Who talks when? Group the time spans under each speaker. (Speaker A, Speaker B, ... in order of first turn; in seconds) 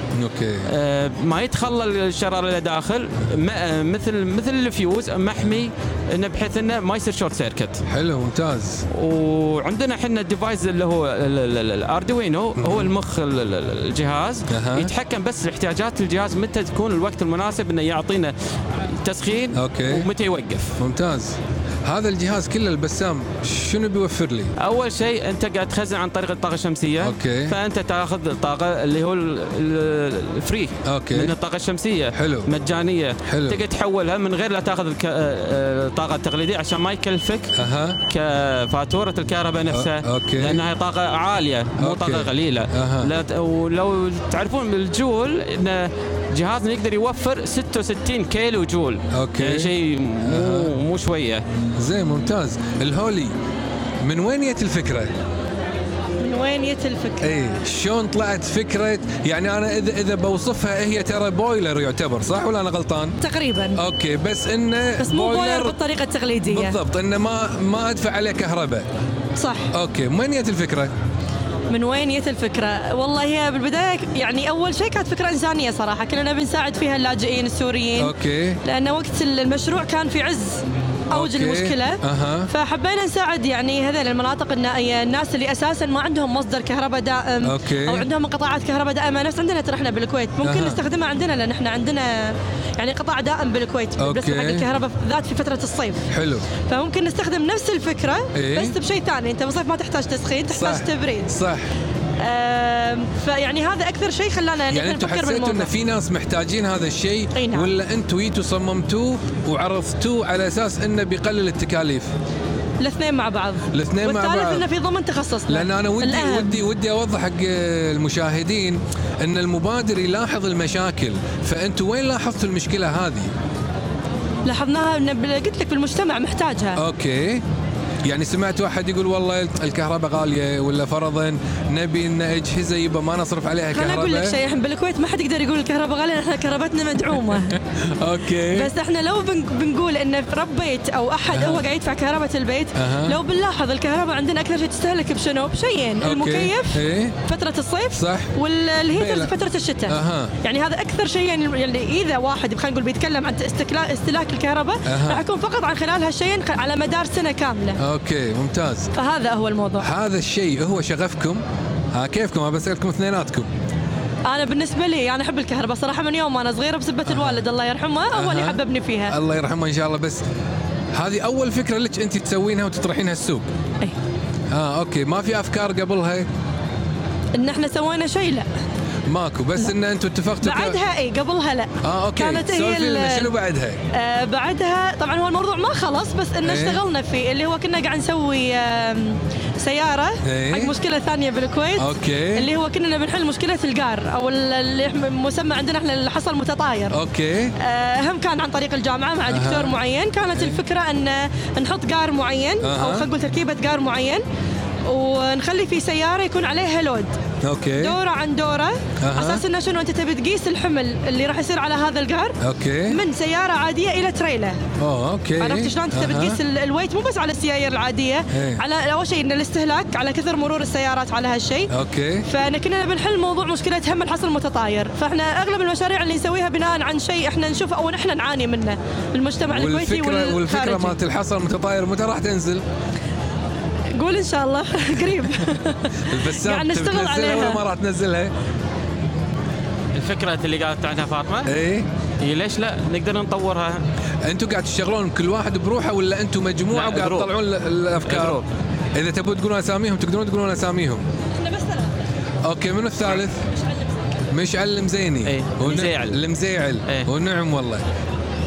Speaker A: 0.1-0.7, 7.9-8.8, 12.6-12.9, 14.5-14.9, 19.5-20.1, 20.8-24.5, 27.0-27.6, 30.8-31.4, 32.1-32.5, 33.2-33.6, 37.5-38.0, 39.7-40.6, 41.8-43.1, 49.1-49.7, 50.2-50.7, 51.8-53.3, 54.0-55.1, 57.2-63.2, 63.8-65.8, 66.5-68.8, 69.7-70.9, 78.0-78.6, 81.1-82.5, 87.4-88.1, 90.4-90.8, 94.0-94.7, 96.1-96.5, 98.3-98.8, 100.5-101.7, 104.7-112.1, 113.7-114.7, 115.5-123.3, 126.8-127.4, 128.0-134.4, 137.5-138.7, 141.3-141.6, 142.8-143.2, 146.0-147.2, 147.9-148.3, 148.9-149.3, 149.9-150.3, 154.8-155.2, 157.8-158.9, 159.8-161.4, 161.9-163.5, 167.1-167.4, 168.1-170.2, 170.9-173.5, 174.5-176.3, 179.1-180.8, 181.8-183.8, 186.4-186.8, 190.2-190.7, 191.8-192.5, 196.9-197.5, 199.3-199.8, 202.6-203.1, 207.4-208.0, 209.0-209.4, 212.4-213.0, 214.8-216.4, 218.3-218.6, 221.7-222.3, 229.5-232.6, 236.0-238.3, 241.4-241.9, 244.2-248.4, 248.9-251.0, 252.4-253.4, 254.3-257.8
Speaker B: 0.7-7.8, 8.9-20.8, 24.6-37.5, 38.1-51.4, 239.9-241.5, 242.2-243.8, 246.7-247.3, 248.0-248.4, 255.2-256.2
Speaker C: 56.2-57.2, 63.2-63.8, 65.0-66.8, 69.4-69.7, 71.7-96.0, 96.6-101.3, 102.2-105.7, 107.3-107.7, 112.8-116.6, 124.4-126.8, 133.7-137.6, 138.4-157.8, 158.9-159.9, 164.2-169.1, 177.3-178.5, 180.4-183.3, 183.9-197.0, 197.6-204.2, 204.9-207.1, 207.8-212.4, 212.9-214.6, 215.4-221.7, 222.2-231.0, 233.9-237.6, 251.4-251.9